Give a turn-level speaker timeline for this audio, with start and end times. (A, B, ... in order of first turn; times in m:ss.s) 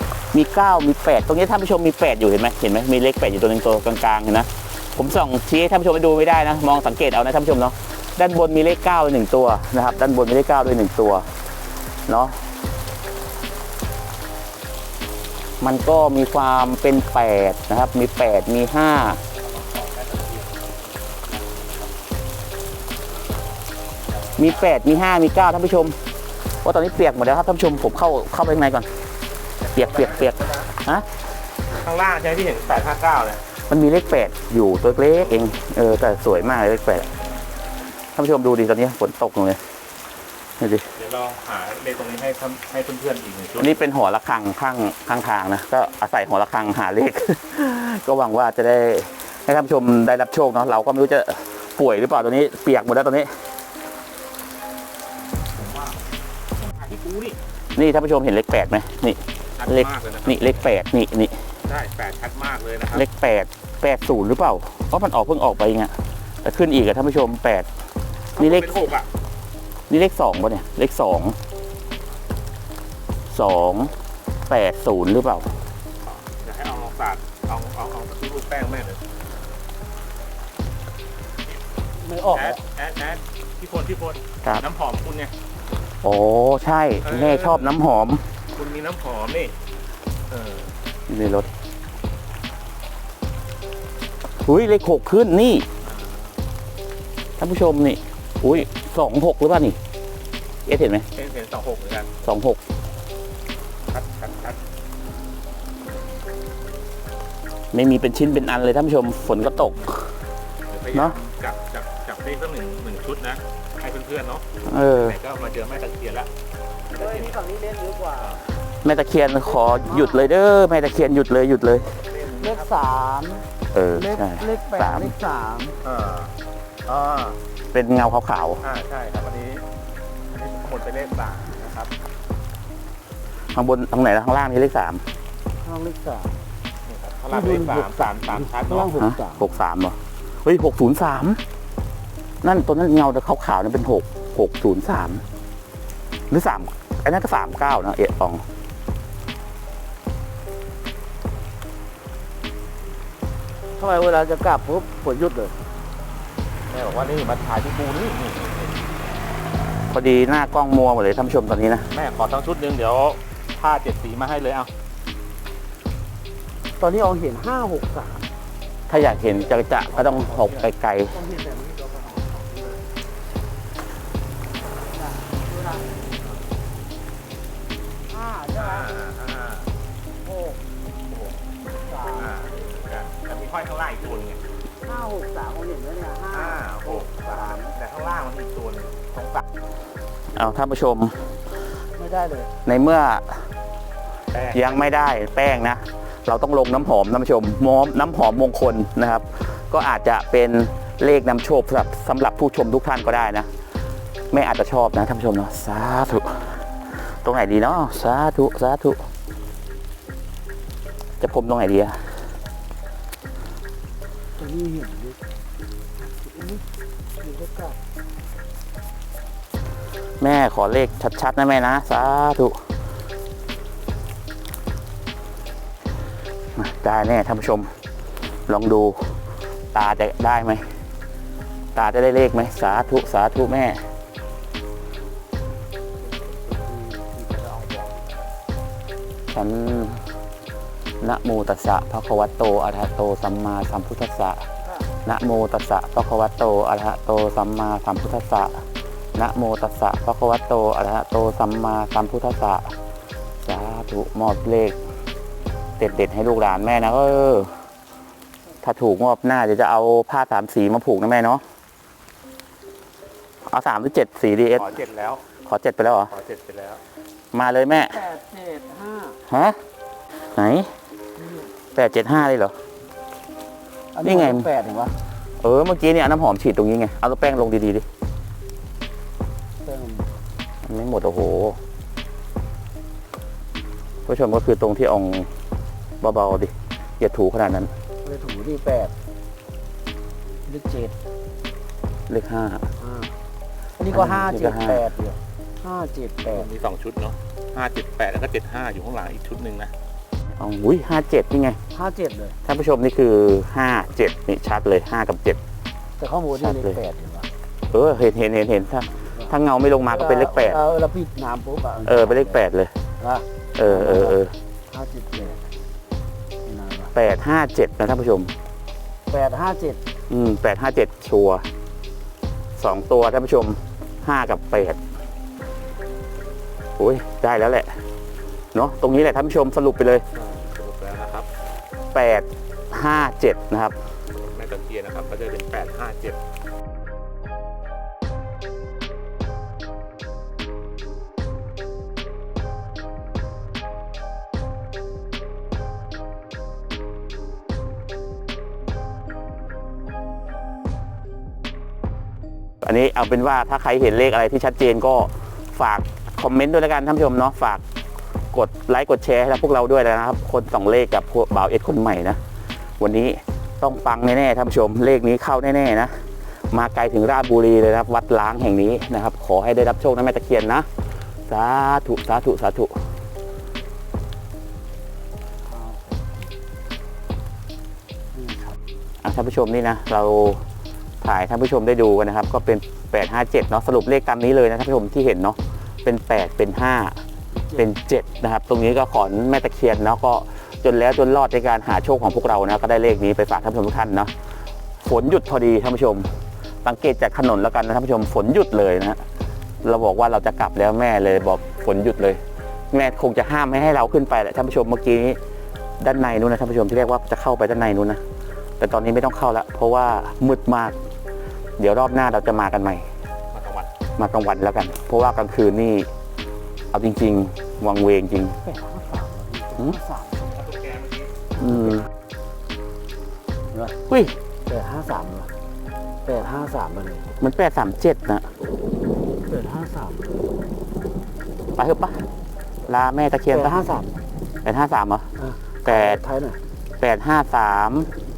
0:00.3-0:11.2 A
0:12.1-0:12.4 A
0:15.6-0:19.2 A
0:19.3-0:20.7 B
0:21.3-0:21.9 B
0:24.1-0:24.7 B
0:24.4-0:26.0 A
0:26.6-0:28.9 A
0:29.6-0:30.7 B
0:29.7-0:31.0 A
0:31.7-0:33.4 B
0:33.7-0:37.1 A
0:38.2-0:39.6 A
0:40.6-0:40.8 A
0:40.9-0:43.8 B
0:43.6-0:53.3 A
0:55.4-0:56.0 B
0:56.6-0:57.4 B
0:57.8-1:01.4 A
0:59.6-1:00.6 B
1:01.6-1:03.0 B
1:02.9-1:07.7 A
1:08.4-1:09.1 B
1:08.4-1:08.8 A
1:09.9-1:11.4 A
1:13.3-1:13.9 A
1:14.5-1:15.5 A
1:16.0-1:19.0 B
1:22.0-1:22.6 C
1:22.3-1:25.3 B
1:26.0-1:28.2 A
1:27.0-1:27.7 B
1:28.5-1:29.5 B
1:30.3-1:30.7 B
1:31.1-1:31.5 A
1:34.4-1:35.6 A
1:35.8-1:36.3 B
1:37.4-1:39.8 A
1:40.7-1:41.1 A
1:41.1-1:42.1 B
1:42.2-1:42.6 A
1:43.9-1:44.6 B
1:47.7-1:50.1 A
1:50.7-1:56.3 B
1:54.6-1:55.2 A
1:56.9-1:57.3 B
1:57.0-1:58.4 C
1:58.2-1:58.4 B
1:58.8-2:01.9 A
1:59.4-2:00.4 C
2:01.9-2:02.8 B
2:02.4-2:05.8 C
2:03.7-2:05.1 A
2:05.8-2:06.3 B
2:06.8-2:07.4 B
2:07.7-2:08.6 A
2:08.6-2:09.6 B
2:10.3-2:11.9 B
2:13.5-2:15.0 A
2:15.6-2:16.4 C
2:16.8-2:19.0 B
2:17.3-2:19.5 C
2:19.0-2:21.4 A
2:22.4-2:25.2 A
2:26.3-2:28.4 A
2:33.8-2:35.6 C
2:36.7-2:38.9 B
2:39.9-2:41.9 A
2:41.9-2:44.7 B
2:46.8-2:48.3 C
2:48.9-2:51.2 A
2:49.9-2:52.5 C
2:52.4-2:52.8 B
2:54.7-2:56.0 C
2:58.1-2:58.9 C
2:58.6-2:59.7 B
3:00.2-3:00.6 C
3:01.1-3:01.4 B
3:01.8-3:02.5 C
3:02.0-3:04.4 B
3:04.8-3:07.7 C
3:06.3-3:09.4 B
3:10.3-3:11.2 A
3:12.0-3:12.5 C
3:12.6-3:13.4 A
3:14.3-3:15.6 B
3:14.5-3:23.5 A
3:24.3-3:26.6 A
3:27.2-3:29.0 A
3:31.2-3:32.0 A
3:34.4-3:35.2 C
3:36.0-3:37.8 C
3:40.2-3:42.6 A
3:46.6-3:47.7 A
3:48.5-3:49.1 A
3:49.7-3:50.6 A
3:51.7-3:53.8 A
3:56.0-3:58.2 B
3:59.3-4:00.0 A
4:01.0-4:04.4 A
4:05.0-4:08.6 A
4:09.1-4:12.7 A
4:13.4-4:14.8 A
4:15.8-4:17.5 A
4:18.6-4:21.4 A
4:23.4-4:24.7 A
4:24.6-4:25.2 B
4:25.4-4:26.1 A
4:26.1-4:26.8 B
4:27.3-4:28.0 A
4:27.8-4:29.2 C
4:29.3-4:29.6 A
4:30.4-4:30.7 A
4:31.2-4:31.5 C
4:31.7-4:32.5 A
4:33.9-4:35.0 C
4:34.0-4:34.5 A
4:35.4-4:37.8 A
4:39.6-4:40.1 C
4:40.6-4:41.6 A
4:44.1-4:45.3 A
4:46.0-4:47.7 A
4:48.0-4:48.9 C
4:50.4-4:50.9 C
4:52.1-4:52.7 A
4:52.8-4:53.1 C
4:53.8-4:56.5 C
4:53.9-4:54.8 A
4:56.3-4:59.7 B
5:00.4-5:01.6 A
5:01.7-5:02.4 C
5:02.4-5:05.4 A
5:06.0-5:07.3 C
5:06.3-5:06.8 A
5:07.7-5:10.6 A
5:09.9-5:12.4 C
5:11.8-5:12.7 A
5:13.0-5:15.5 C
5:13.6-5:14.3 A
5:16.4-5:16.9 C
5:16.9-5:18.3 A
5:19.1-5:19.8 C
5:20.1-5:21.4 A
5:22.6-5:24.8 A
5:26.8-5:27.7 A
5:28.5-5:30.0 A
5:30.1-5:31.3 B
5:31.9-5:33.7 A
5:34.1-5:36.2 B
5:52.6-5:57.6 A
5:58.3-6:02.2 A
6:02.8-6:06.0 A
6:06.5-6:10.7 A
6:11.3-6:12.8 A
6:15.4-6:16.3 C
6:18.1-6:18.6 C
6:19.0-6:20.4 A
6:21.0-6:27.0 A
6:27.4-6:27.7 C
6:27.6-6:34.1 A
6:34.8-6:36.1 A
6:36.6-6:39.0 A
6:39.6-6:42.2 A
6:42.7-6:45.2 A
6:45.8-6:48.0 A
6:48.6-6:50.7 A
6:51.6-6:52.9 A
6:53.3-6:53.7 B
6:54.0-6:55.9 A
6:56.7-6:58.4 A
6:58.4-7:00.4 C
7:00.2-7:01.1 B
7:01.4-7:01.8 C
7:01.4-7:01.8 A
7:03.5-7:03.8 C
7:03.9-7:04.1 A
7:04.4-7:05.3 C
7:06.0-7:07.1 C
7:07.2-7:08.3 A
7:09.2-7:10.4 C
7:11.6-7:12.0 A
7:12.6-7:13.7 A
7:13.3-7:13.9 C
7:14.4-7:15.0 A
7:15.2-7:16.4 C
7:15.6-7:16.0 A
7:16.8-7:17.9 A